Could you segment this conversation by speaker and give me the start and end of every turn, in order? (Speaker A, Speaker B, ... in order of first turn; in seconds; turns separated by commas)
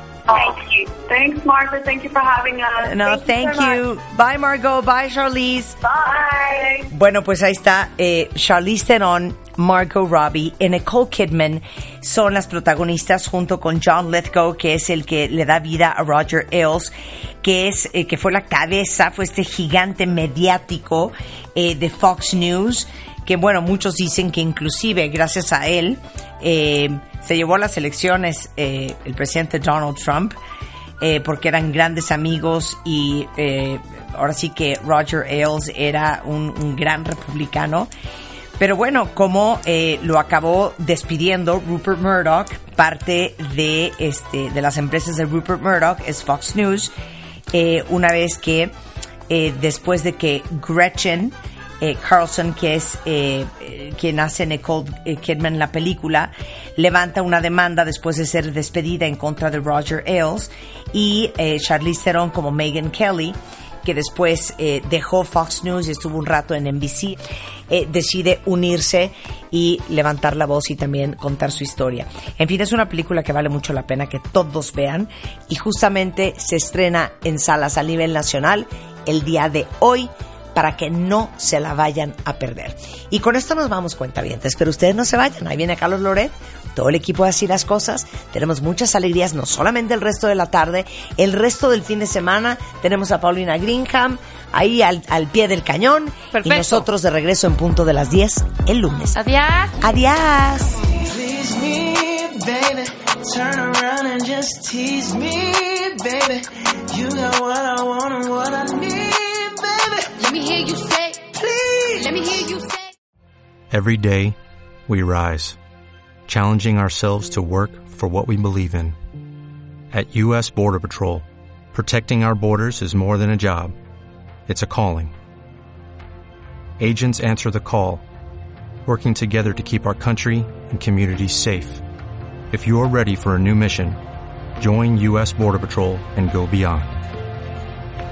Speaker A: 0.3-3.8, Speaker B: 2.8-5.8, Speaker A: 5.8-6.9, Speaker B: 6.9-16.9, Speaker B: 17.4-30.4, Speaker B: 31.0-37.9, Speaker B: 38.6-46.9, Speaker B: 47.5-48.7, Speaker B: 49.3-67.2, Speaker B: 67.7-99.2, Speaker C: 96.3-96.9, Speaker C: 99.1-99.8, Speaker B: 99.8-100.8, Speaker D: 100.8-110.3, Speaker C: 110.2-111.2, Speaker D: 111.2-112.2, Speaker C: 112.0-112.9, Speaker E: 113.7-115.6, Speaker E: 116.3-119.0, Speaker E: 119.9-123.8, Speaker E: 124.5-125.1, Speaker E: 126.8-128.0, Speaker E: 128.9-131.8, Speaker E: 132.5-134.0, Speaker E: 134.6-137.0